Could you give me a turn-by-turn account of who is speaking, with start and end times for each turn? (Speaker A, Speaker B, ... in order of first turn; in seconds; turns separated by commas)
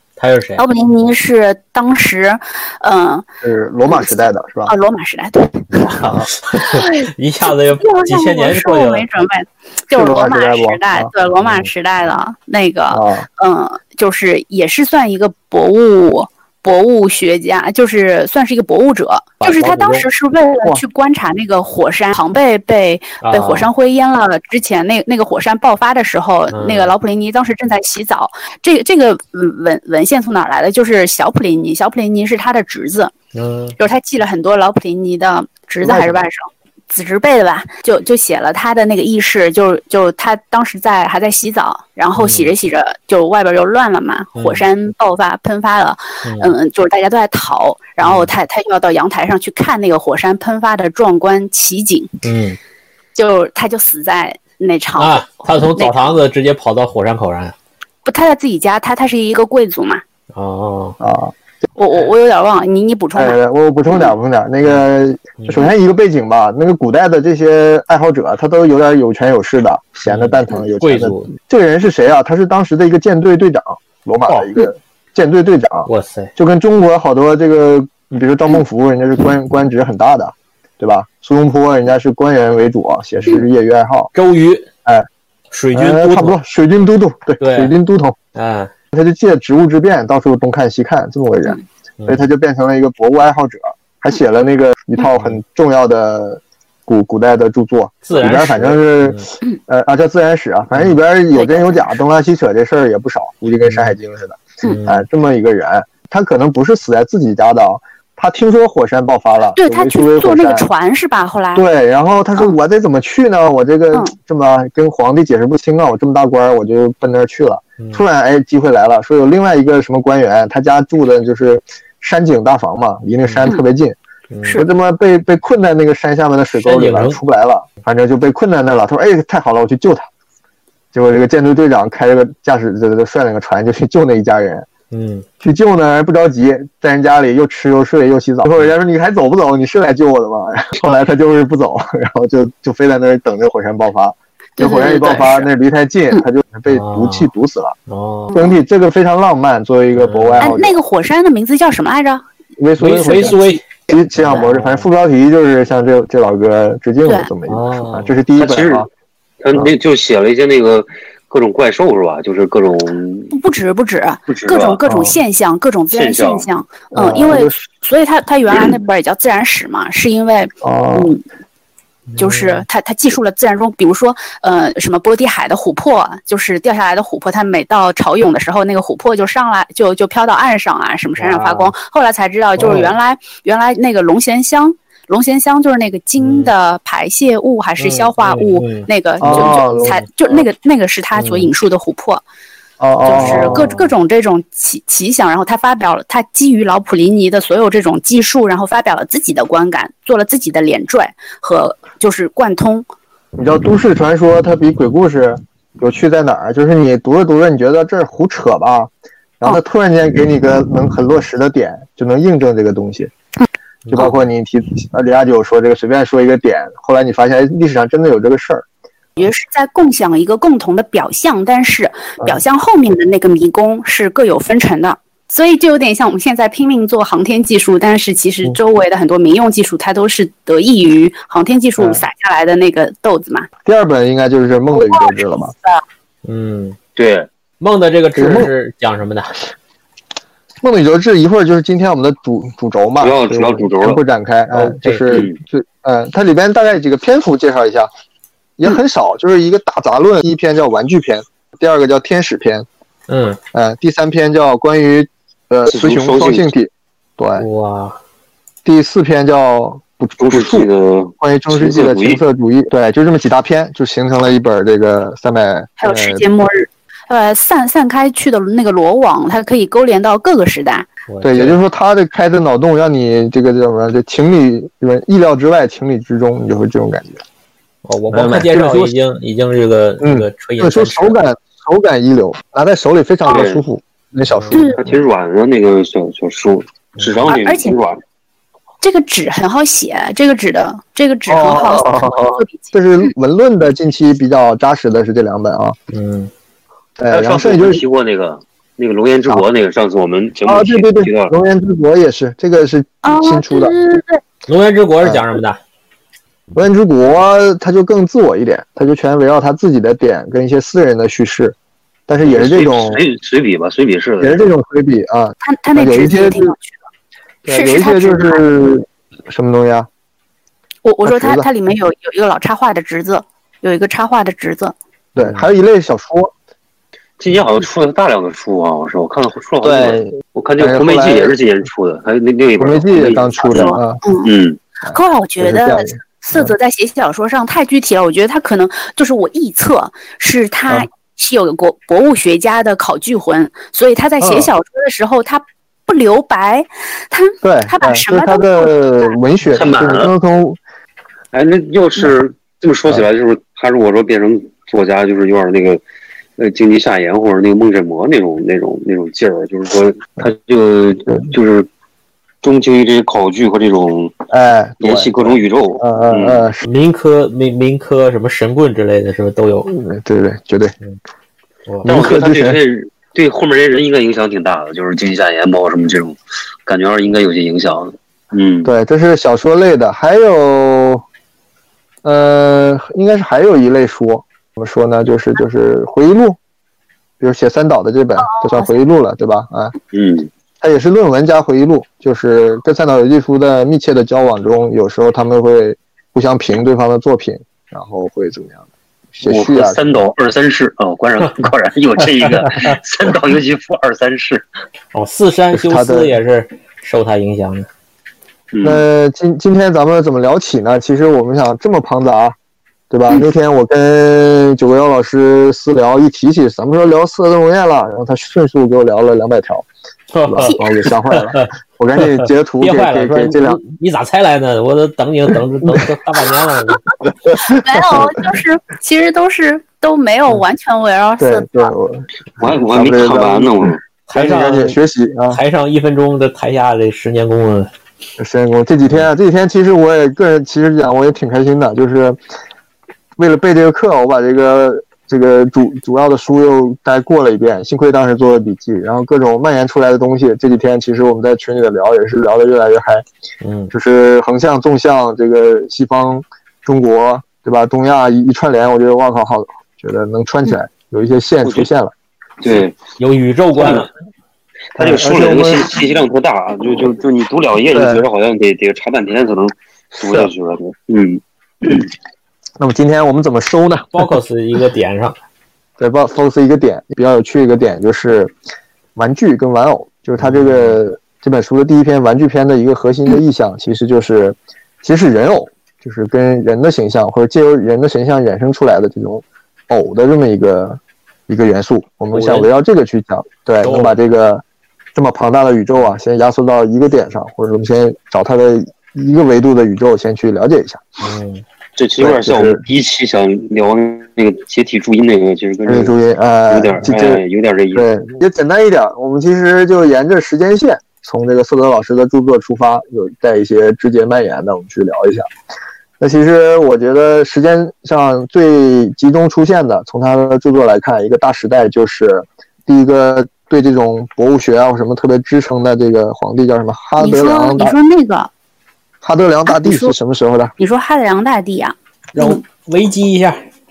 Speaker A: 0.2-0.6, Speaker B: 0.6-3.2, Speaker C: 3.4-4.7, Speaker B: 3.9-7.0, Speaker C: 6.0-6.3, Speaker A: 6.0-9.1, Speaker B: 7.8-33.1, Speaker C: 9.9-11.1, Speaker A: 11.4-11.7, Speaker C: 12.9-13.3, Speaker A: 19.4-20.1, Speaker A: 23.2-23.7, Speaker A: 26.5-26.9, Speaker A: 33.3-33.8, Speaker B: 33.8-52.1, Speaker C: 35.8-36.1, Speaker A: 42.1-42.5, Speaker A: 44.3-44.6, Speaker A: 46.2-46.5, Speaker A: 48.0-48.3, Speaker A: 52.2-52.6, Speaker B: 53.1-56.2, Speaker A: 55.0-57.5, Speaker B: 58.0-60.0, Speaker A: 60.3-61.0, Speaker C: 61.0-61.3, Speaker B: 61.8-63.4, Speaker C: 63.1-84.1, Speaker A: 65.4-65.7, Speaker A: 70.0-71.3, Speaker A: 75.9-76.3, Speaker A: 84.1-84.7, Speaker A: 85.5-86.4, Speaker C: 85.7-88.2, Speaker A: 87.4-87.7, Speaker A: 88.3-88.7, Speaker C: 88.9-110.7, Speaker A: 95.1-95.4, Speaker A: 98.0-99.2, Speaker B: 101.3-102.0, Speaker A: 103.6-104.0, Speaker A: 104.6-105.0, Speaker B: 109.6-111.6, Speaker C: 111.5-124.0, Speaker A: 117.8-118.0, Speaker A: 123.2-123.5, Speaker A: 124.3-124.6, Speaker C: 124.5-130.1, Speaker A: 126.6-127.2, Speaker C: 130.9-134.7, Speaker A: 134.9-135.2, Speaker C: 135.4-147.8, Speaker B: 144.6-145.5, Speaker A: 146.7-147.3, Speaker A: 147.9-148.4, Speaker C: 148.3-150.8, Speaker A: 149.9-150.5, Speaker B: 150.4-152.2, Speaker C: 152.6-158.9, Speaker A: 152.8-154.9, Speaker A: 157.5-158.1, Speaker D: 158.4-158.9, Speaker D: 159.4-163.3, Speaker B: 163.3-171.2, Speaker D: 164.3-164.8, Speaker C: 164.8-165.2, Speaker D: 165.9-166.5, Speaker C: 166.9-167.6, Speaker C: 170.6-171.1, Speaker A: 172.1-172.7, Speaker B: 172.2-192.2, Speaker A: 181.2-181.7, Speaker C: 182.6-182.9, Speaker A: 186.2-186.5, Speaker A: 187.8-190.1, Speaker C: 189.2-190.4, Speaker A: 191.1-191.5, Speaker C: 192.8-193.7, Speaker B: 193.0-202.9, Speaker A: 193.1-193.9, Speaker C: 203.3-213.1, Speaker A: 213.8-214.2, Speaker C: 213.9-218.6, Speaker B: 219.2-233.5, Speaker C: 231.8-232.0, Speaker C: 233.6-235.5, Speaker B: 234.7-235.8, Speaker A: 236.2-236.8, Speaker D: 236.9-237.3, Speaker A: 237.6-239.4, Speaker C: 238.2-238.5, Speaker C: 240.6-247.9, Speaker D: 243.0-244.0, Speaker A: 244.5-245.2, Speaker C: 248.6-252.7, Speaker A: 253.1-253.4, Speaker C: 253.5-257.4, Speaker D: 255.7-256.5, Speaker A: 257.4-258.0, Speaker C: 258.6-260.7, Speaker D: 260.2-262.2, Speaker C: 261.2-266.2, Speaker B: 265.8-270.9, Speaker A: 271.1-271.6, Speaker C: 271.2-277.2, Speaker A: 277.8-281.2, Speaker C: 278.1-278.9, Speaker C: 280.0-285.0, Speaker D: 283.3-283.6, Speaker A: 284.3-284.6, Speaker B: 284.5-284.8, Speaker D: 284.8-288.0, Speaker A: 287.0-287.2, Speaker B: 287.3-287.7, Speaker B: 288.8-292.7, Speaker C: 291.3-295.8, Speaker A: 295.9-296.3, Speaker C: 297.0-297.8, Speaker D: 297.1-301.3, Speaker C: 300.4-303.7, Speaker B: 303.0-304.2, Speaker A: 304.5-305.6, Speaker C: 305.0-305.4, Speaker C: 306.5-311.6, Speaker C: 312.1-313.0, Speaker D: 312.2-314.5, Speaker C: 314.2-316.5, Speaker B: 315.4-316.8, Speaker C: 317.4-319.9, Speaker B: 317.5-318.4, Speaker B: 320.8-324.7, Speaker C: 321.0-321.5, Speaker C: 325.1-326.3, Speaker A: 325.2-325.5, Speaker D: 327.2-334.6, Speaker C: 329.6-331.3, Speaker C: 332.6-334.0, Speaker B: 333.5-334.3, Speaker C: 334.8-336.5, Speaker B: 334.9-349.1, Speaker C: 344.2-344.5, Speaker C: 347.4-350.6, Speaker D: 349.5-350.1, Speaker D: 351.3-355.8, Speaker D: 356.4-361.7, Speaker D: 362.4-364.1, Speaker C: 364.3-366.6, Speaker D: 364.8-366.4, Speaker A: 366.6-369.7, Speaker C: 369.7-370.7, Speaker A: 371.7-371.9, Speaker C: 371.8-372.6, Speaker D: 371.8-378.7, Speaker C: 378.6-381.0, Speaker C: 382.0-386.4, Speaker C: 387.2-389.7, Speaker B: 388.3-388.7, Speaker D: 389.9-390.3, Speaker C: 390.6-399.8, Speaker D: 399.2-404.4, Speaker A: 402.2-402.7, Speaker A: 404.9-407.7, Speaker C: 405.5-406.2, Speaker D: 408.5-408.8, Speaker C: 408.6-412.4, Speaker C: 412.9-419.6, Speaker A: 420.1-426.8, Speaker C: 420.3-423.6, Speaker C: 427.2-428.3, Speaker B: 427.4-431.7, Speaker C: 431.2-435.4, Speaker D: 432.4-433.8, Speaker A: 434.1-434.8, Speaker A: 435.3-437.7, Speaker C: 438.2-442.2, Speaker C: 443.2-453.0, Speaker A: 453.4-453.7, Speaker C: 453.7-461.9, Speaker D: 462.4-462.8, Speaker A: 463.0-463.9, Speaker D: 463.6-463.9, Speaker D: 464.7-471.9, Speaker C: 464.8-465.8, Speaker C: 467.7-468.0, Speaker C: 470.0-470.3, Speaker C: 472.6-474.1, Speaker A: 473.9-475.2, Speaker C: 475.8-478.3, Speaker C: 478.9-494.4, Speaker A: 480.2-480.8, Speaker A: 492.1-492.5, Speaker A: 493.6-493.9, Speaker C: 494.9-500.8, Speaker A: 501.0-501.4, Speaker D: 501.8-505.9, Speaker C: 502.0-502.6, Speaker C: 505.6-515.3, Speaker D: 506.5-507.9, Speaker C: 516.0-527.8, Speaker B: 527.0-528.3, Speaker C: 529.0-530.5, Speaker B: 529.5-529.9, Speaker B: 530.6-532.4, Speaker A: 532.1-533.4